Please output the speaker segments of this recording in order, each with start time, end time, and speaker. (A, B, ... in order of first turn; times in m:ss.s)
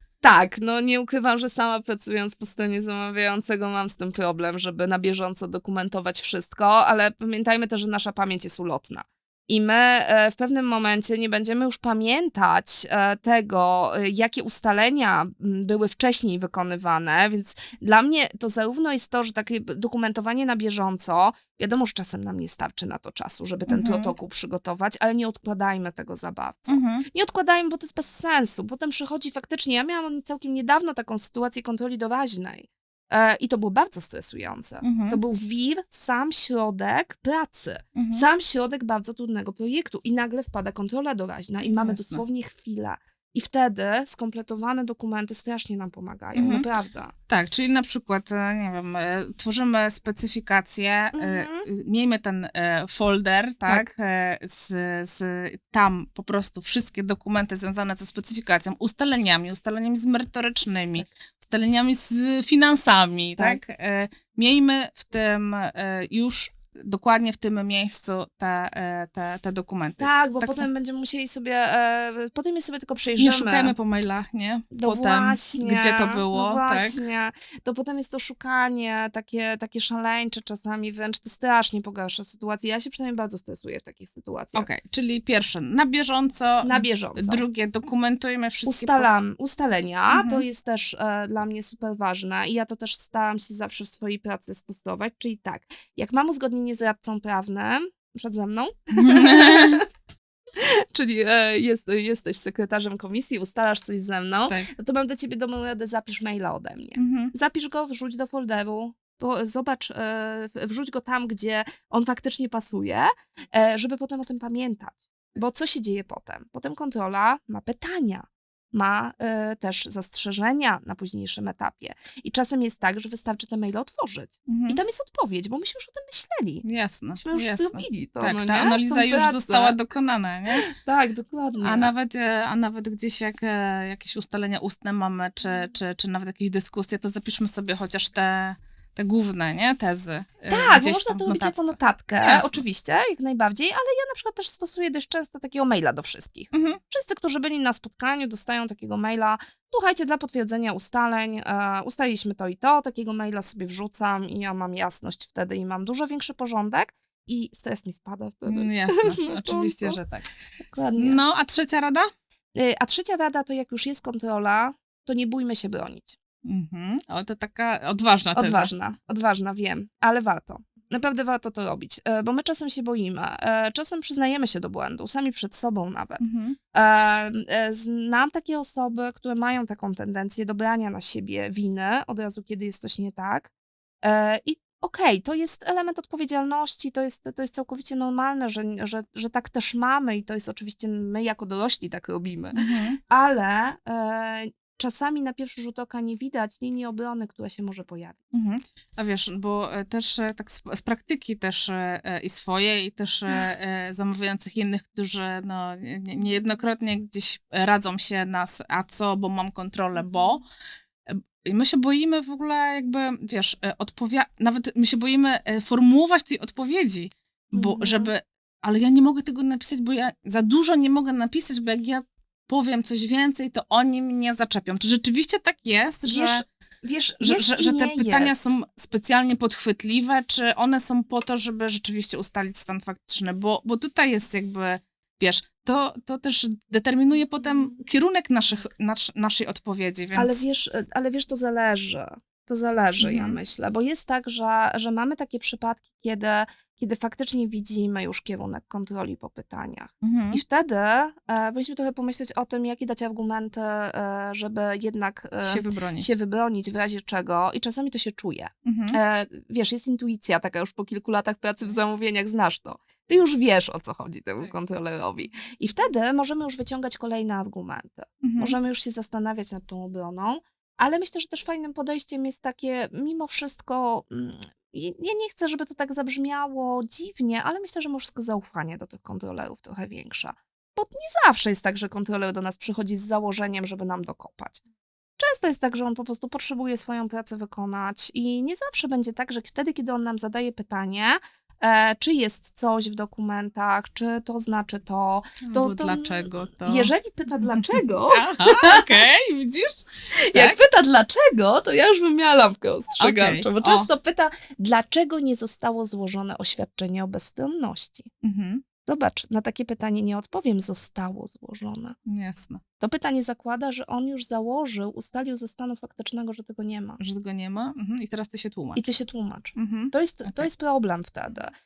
0:00.2-0:47.1 A
0:23.7-0:24.1 B
0:26.7-0:27.0 B
0:34.8-0:35.2 B
0:38.0-0:38.2 B
0:41.7-0:42.2 B
0:46.4-0:46.7 B
0:47.3-1:10.7 B
0:51.1-0:51.7 A
1:10.0-1:13.7 A
1:13.2-1:17.0 B
1:14.7-1:24.7 A
1:24.5-1:29.1 B
1:26.6-1:27.5 A
1:28.7-1:39.8 A
1:30.1-1:30.4 B
1:39.0-1:39.8 B
1:40.6-2:06.6 A
1:47.0-1:47.3 B
2:04.5-2:04.8 B
2:06.6-2:10.7 B
2:07.2-2:09.8 A
2:10.6-2:11.9 A
2:11.6-2:22.6 B
2:20.5-2:40.0 A
2:26.5-2:26.8 B
2:38.5-2:40.3 B
2:40.6-2:41.2 A
2:41.0-2:42.1 B
2:42.6-2:46.2 A
2:46.4-2:48.7 B
2:48.4-2:56.2 A
2:56.2-2:56.6 B
2:56.7-3:03.5 A
3:04.0-3:18.3 A
3:12.6-3:13.0 B
3:18.3-3:30.4 B
3:31.1-3:46.4 B
3:37.6-3:38.1 A
3:46.0-3:48.6 A
3:47.2-4:00.4 B
4:00.2-4:44.6 A
4:03.0-4:03.4 B
4:10.0-4:10.4 B
4:15.4-4:16.1 B
4:18.6-4:19.0 B
4:28.2-4:28.6 B
4:45.2-4:59.0 A
4:55.4-4:56.9 B
4:57.6-4:59.8 B
5:00.3-5:08.1 A
5:00.3-5:00.6 B
5:03.0-5:03.9 B
5:08.2-5:08.6 B
5:08.8-5:12.0 A
5:12.1-5:12.6 B
5:12.8-5:17.0 A
5:17.0-5:18.9 B
5:18.8-5:21.5 A
5:19.6-5:20.5 B